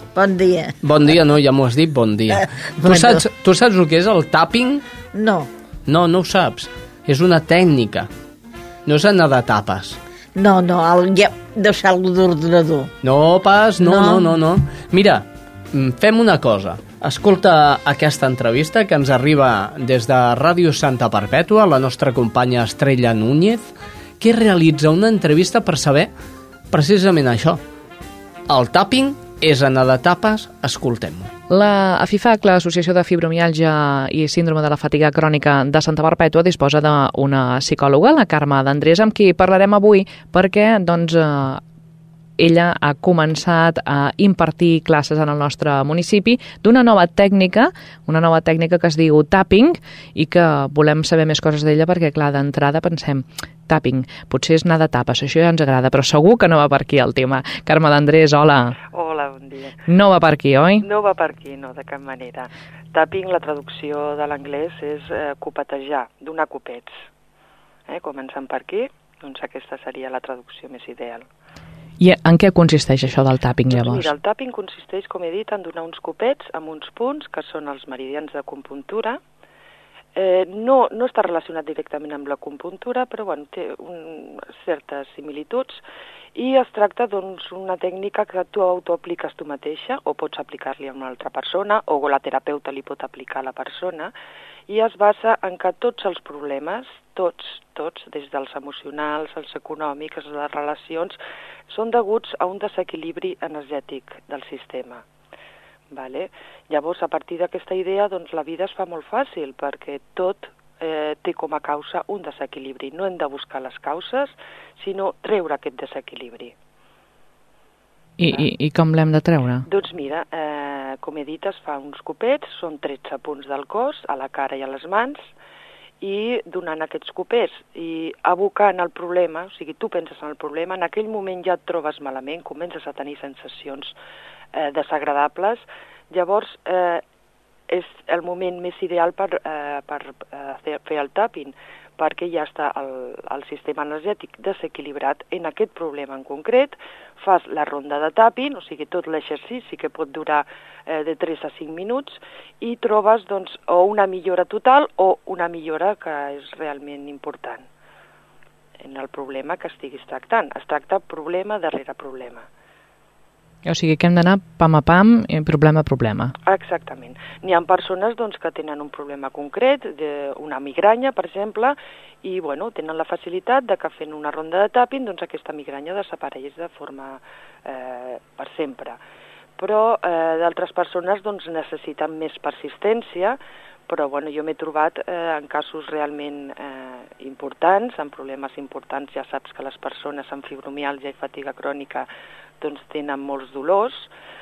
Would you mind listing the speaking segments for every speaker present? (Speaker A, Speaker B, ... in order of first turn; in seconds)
Speaker A: 0.1-0.8, 2.8-3.2, 5.1-5.5, 10.4-12.9, 13.8-14.3
Speaker B: 0.8-4.8, 5.9-8.1, 8.9-10.0, 13.0-23.7, 24.2-26.1, 26.7-27.6, 28.5-31.3
Speaker C: 31.5-41.6, 42.4-58.8, 59.9-60.9, 72.0-74.1, 118.2-119.7, 163.7-166.3
Speaker D: 58.9-59.8, 60.8-66.9, 67.9-71.3, 73.7-79.2, 80.2-85.8, 86.3-94.1, 94.7-101.2, 101.7-105.0, 105.9-116.5, 119.7-125.3, 126.0-133.9, 134.5-137.0, 137.7-157.7, 158.8-162.5, 166.5-179.0, 179.6-192.1, 192.6-194.1